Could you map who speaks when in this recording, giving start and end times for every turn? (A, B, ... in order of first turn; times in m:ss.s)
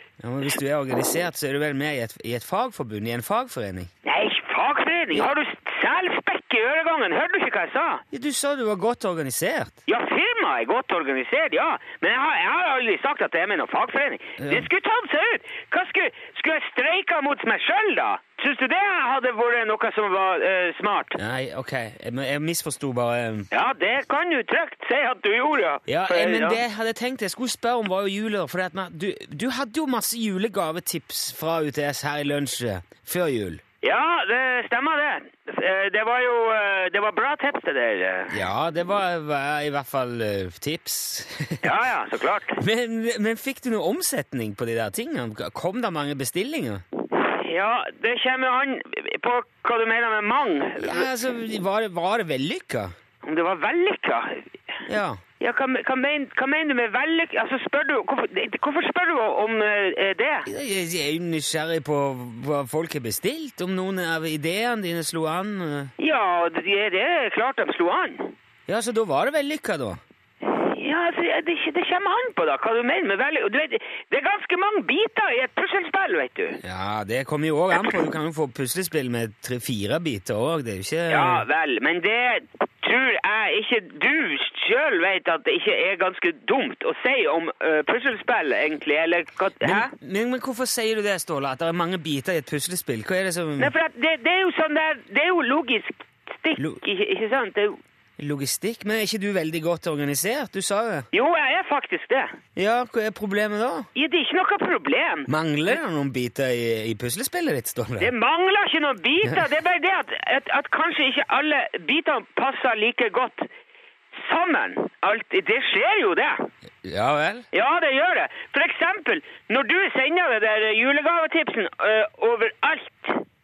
0:00.2-0:03.9 A
0:04.0-0:08.0 B
0:08.1-0:09.8 A
0:09.9-0:21.2 B
0:14.4-0:14.7 A
0:21.2-0:23.5 A
0:23.5-0:26.6 B
0:25.9-0:33.6 A
0:33.8-0:38.4 B
0:38.3-0:41.7 A
0:41.6-0:42.6 B
0:42.6-0:46.8 A
0:47.1-0:51.1 B
0:50.8-0:52.9 A
0:53.2-0:54.5 B
0:54.9-0:55.2 A
0:55.4-1:00.5 B
1:00.5-1:05.9 A
1:06.0-1:08.3 B
1:08.7-1:10.0 A
1:10.4-1:16.6 B
1:16.6-1:21.4 A
1:21.1-1:29.9 B
1:29.6-1:33.7 A
1:33.6-1:37.8 B
1:38.2-1:41.1 A
1:41.1-1:42.4 B
1:42.6-1:43.9 A
1:44.0-1:45.3 B
1:45.3-1:48.1 A
1:48.0-1:53.5 B
1:54.2-1:56.5 B
1:56.8-1:57.4 A
1:57.5-2:03.2 B